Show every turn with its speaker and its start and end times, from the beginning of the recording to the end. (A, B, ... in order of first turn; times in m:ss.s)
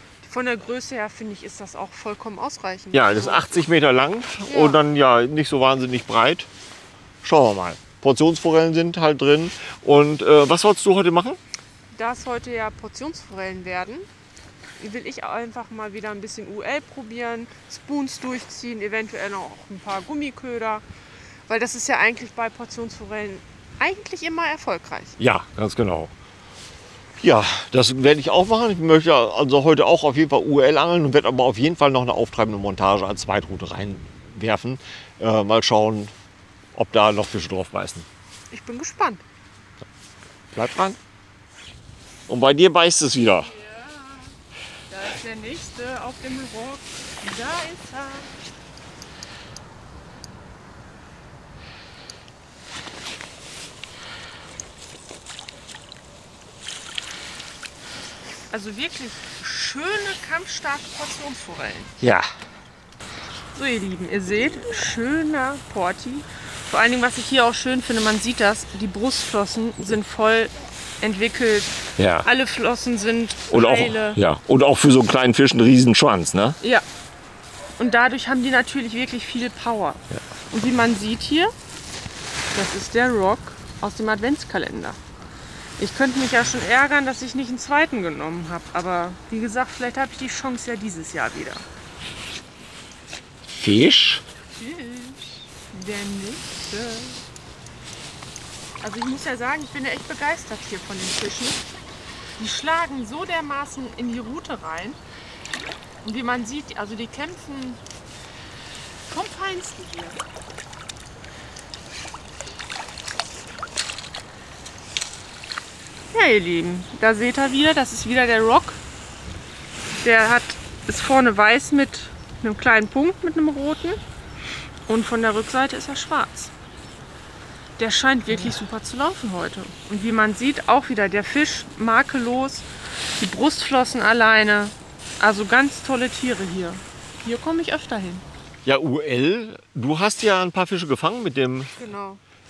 0:00.2-0:03.6 A
0:02.9-0:06.5 B
0:04.5-0:04.8 A
0:07.2-0:11.4 B
0:11.9-0:14.1 A
0:14.8-0:20.8 A
0:21.5-0:25.2 A
0:25.2-0:26.1 B
0:27.2-0:36.1 B
0:36.7-0:38.1 B
0:38.5-0:39.2 A
0:40.5-0:41.0 B
0:42.3-0:43.5 B
0:43.4-0:44.3 A
0:44.9-0:48.3 A
0:58.5-1:01.9 A
1:02.0-1:02.3 B
1:03.5-1:14.2 A
1:12.0-1:12.3 B
1:13.5-1:16.6 B
1:17.8-1:21.5 A
1:22.5-1:25.0 A
1:25.8-1:31.7 A
1:33.5-1:34.2 B
1:34.6-1:37.2 A
1:38.8-1:41.6 A
1:42.4-1:45.0 A
1:46.0-1:47.8 A
1:49.1-1:50.2 A
1:56.1-1:58.8 A
2:00.0-2:04.0 A
2:04.9-2:06.5 A
2:07.8-2:18.2 A
2:18.6-2:21.8 B
2:21.8-2:22.2 A